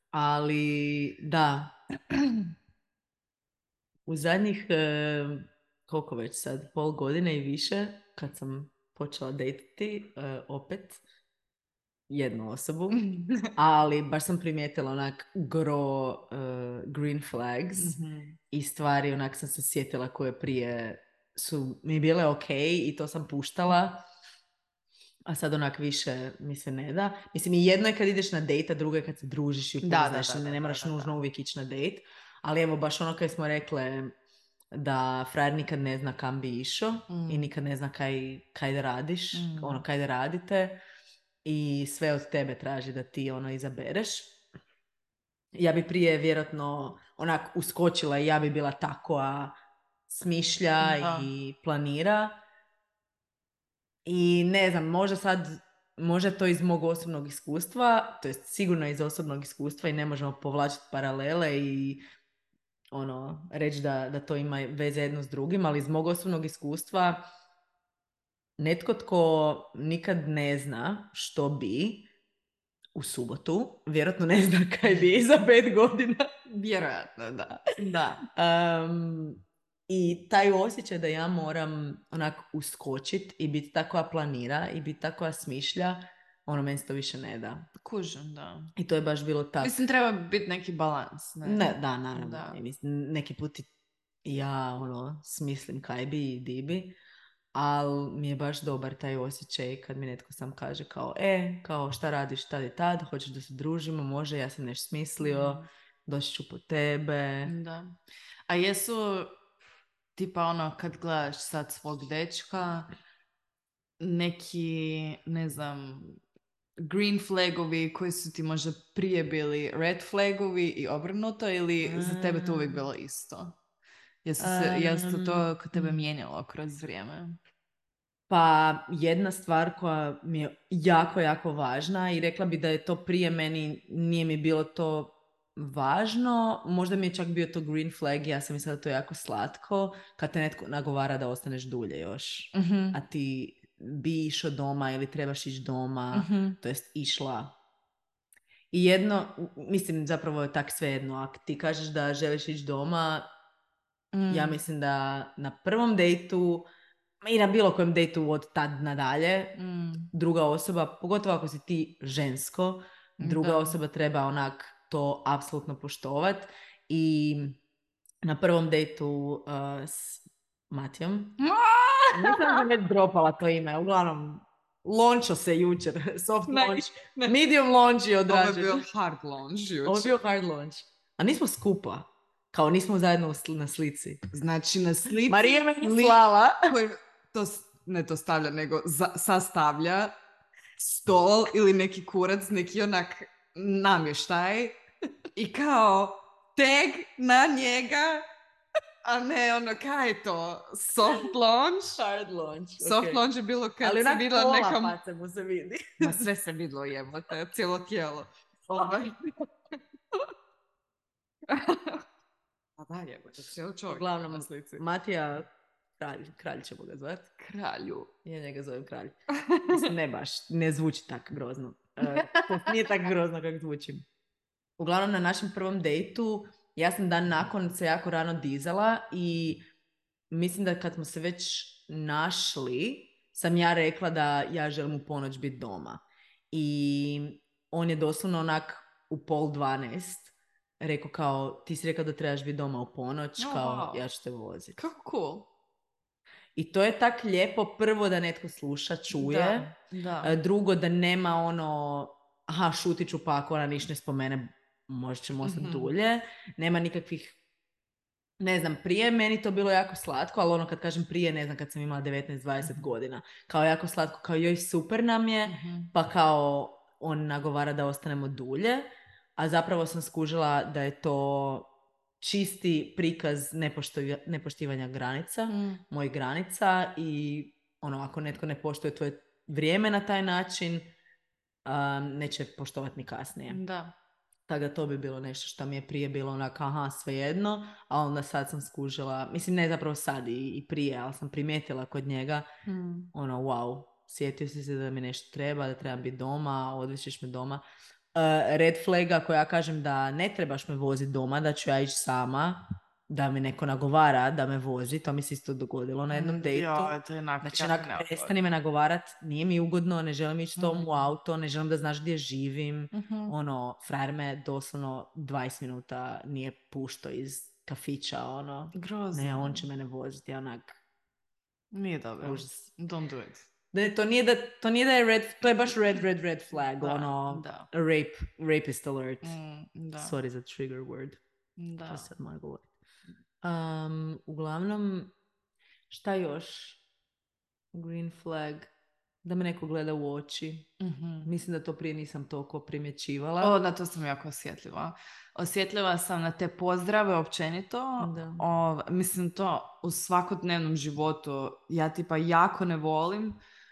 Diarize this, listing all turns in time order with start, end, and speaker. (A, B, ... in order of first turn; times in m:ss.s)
0:00.1-0:01.7 A
0:04.1-0:11.0 A
0:12.1-0:13.0 A
0:12.9-0:13.5 B
0:13.5-0:18.0 A
0:17.8-0:18.4 B
0:18.5-0:24.0 A
0:25.3-0:34.1 A
0:29.8-0:31.1 B
0:34.7-0:40.8 A
0:37.1-0:37.5 B
0:39.3-0:39.8 B
0:41.4-0:44.3 A
0:45.5-0:49.5 A
0:50.1-0:52.4 A
0:50.8-0:51.3 B
0:54.0-1:02.0 A
1:02.9-1:07.2 A
1:08.6-1:12.0 A
1:12.9-1:16.3 A
1:16.5-1:18.2 B
1:18.3-1:27.6 A
1:27.8-1:28.7 B
1:28.8-1:29.8 A
1:29.6-1:32.6 B
1:31.4-1:33.7 A
1:34.2-1:36.9 A
1:37.5-1:47.5 A
1:45.2-1:45.6 B
1:47.4-1:47.9 B
1:48.5-1:49.4 B
1:50.2-1:52.9 B
1:54.0-1:56.2 B
1:56.8-2:03.6 B
2:01.8-2:02.8 A
2:04.2-2:07.4 B
2:04.4-2:06.0 A
2:08.3-2:27.5 A
2:22.5-2:23.0 B
2:26.1-2:26.6 B
2:28.7-2:33.3 A
2:34.1-2:34.6 B
2:34.3-2:36.7 A
2:37.2-2:39.5 A
2:39.5-2:40.1 B
2:40.1-2:47.6 A
2:43.2-2:43.8 B
2:48.2-2:51.4 A
2:51.4-2:52.6 B
2:52.1-2:58.8 A
2:56.5-2:57.4 B
2:58.3-3:00.2 B
2:59.8-3:04.2 A
3:04.3-3:10.1 B
3:05.3-3:06.6 A
3:10.8-3:14.8 B
3:15.3-3:18.2 B
3:19.0-3:22.0 B
3:22.0-3:23.2 A
3:22.8-3:25.0 B
3:23.8-3:26.3 A
3:26.0-3:29.2 B
3:28.7-3:29.0 A
3:31.5-3:32.0 B
3:32.8-3:34.8 B
3:33.9-3:37.3 A
3:37.4-3:38.1 B
3:38.2-3:39.2 A
3:39.5-3:39.9 B
3:39.7-3:44.0 A
3:42.0-3:42.7 B
3:44.8-3:49.6 A
3:50.3-4:04.8 A
4:03.4-4:04.0 B
4:04.8-4:05.5 B
4:06.6-4:09.7 A
4:09.1-4:10.3 B
4:10.2-4:17.4 A
4:15.4-4:15.9 B
4:18.4-4:31.7 A
4:22.6-4:22.9 B
4:25.4-4:25.9 B
4:32.2-4:40.9 A
4:35.5-4:35.8 B
4:41.6-4:43.6 A
4:43.5-4:43.9 B
4:44.5-4:52.4 A
4:52.6-4:53.1 B
4:53.1-4:57.6 A
4:58.1-5:20.8 A
5:06.1-5:08.3 B
5:10.6-5:11.1 B
5:12.9-5:13.3 B
5:18.7-5:19.6 B
5:21.7-5:23.4 B
5:22.2-5:22.7 A
5:23.7-5:29.4 A
5:26.8-5:27.7 B
5:29.2-5:30.2 B
5:30.0-5:31.2 A
5:31.6-5:32.1 B
5:31.9-5:32.7 A
5:33.4-5:35.1 A
5:35.9-5:36.8 A
5:37.7-5:38.7 A
5:39.2-5:40.7 A
5:40.8-5:41.3 B
5:41.2-5:43.6 A
5:43.4-5:53.4 B
5:48.0-5:48.4 A